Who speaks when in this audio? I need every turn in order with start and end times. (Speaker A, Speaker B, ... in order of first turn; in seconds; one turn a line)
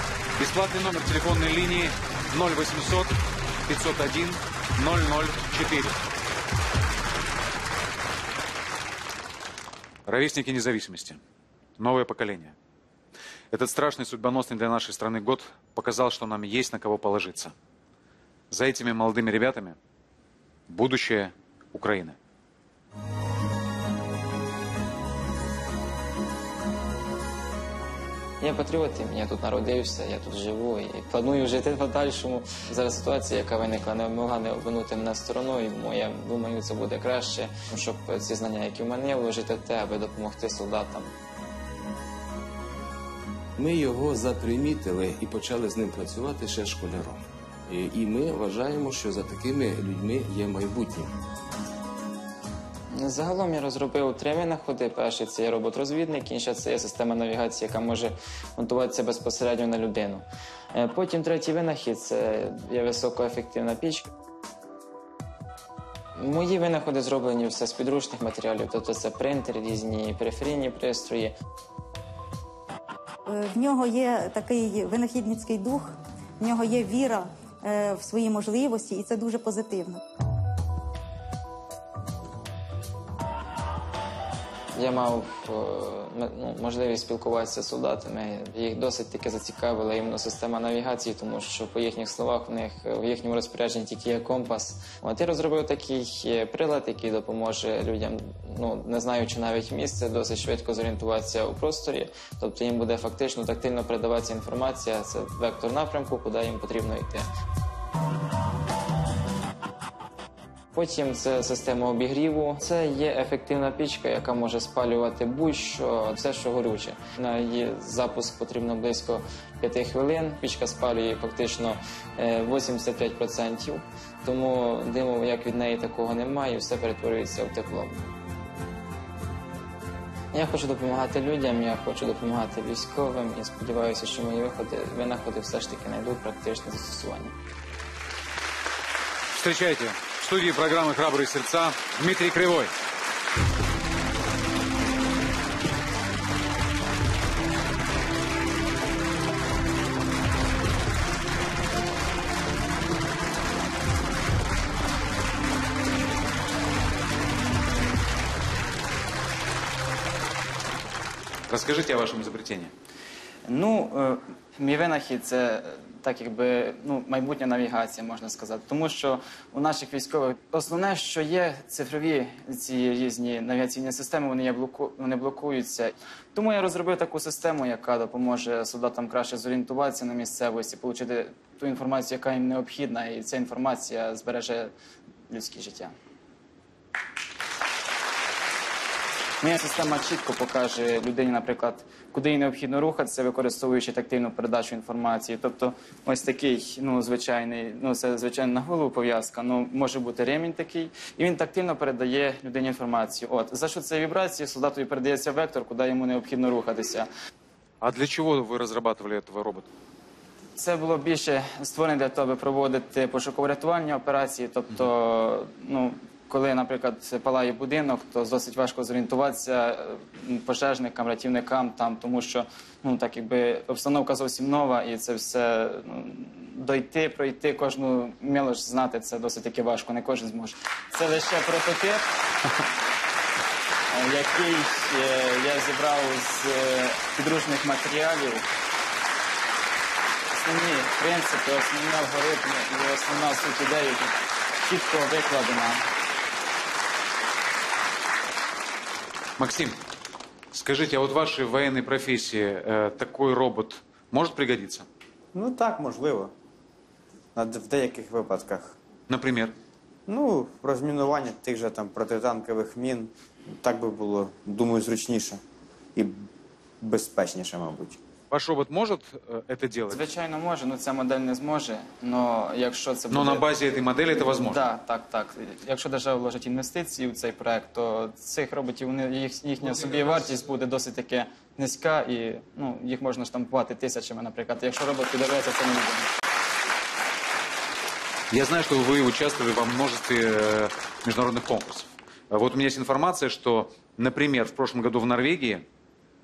Speaker A: 0.4-6.0
Speaker A: 10.1-11.2
Speaker A: 11.8-12.5
Speaker A: 13.5-17.5
Speaker A: 18.5-19.8
Speaker A: 20.7-22.2
Speaker B: 28.4-41.1
Speaker C: 43.6-51.1
Speaker B: 52.9-64.1
Speaker B: 66.2-71.3
Speaker D: 73.2-80.0
Speaker B: 84.8-107.3
Speaker B: 110.7-128.1
Speaker B: 130.3-137.3
Speaker A: 139.3-142.7
Speaker A: 161.5-162.7
Speaker B: 163.5-184.7
Speaker B: 185.3-185.9
Speaker B: 189.4-207.1
Speaker A: 207.8-209.7
Speaker B: 210.6-232.1
Speaker B: 233.9-238.4
Speaker B: 240.3-245.8
Speaker A: 249.4-249.8
Speaker A: 250.5-254.9
Speaker E: 255.3-256.3
Speaker E: 257.4-258.8
Speaker A: 259.1-259.6
Speaker E: 260.1-265.4
Speaker E: 266.8-268.0
Speaker A: 268.3-270.0
Speaker B: 269.9-273.4
Speaker A: 273.1-274.6
Speaker B: 274.3-286.1
Speaker A: 288.3-295.6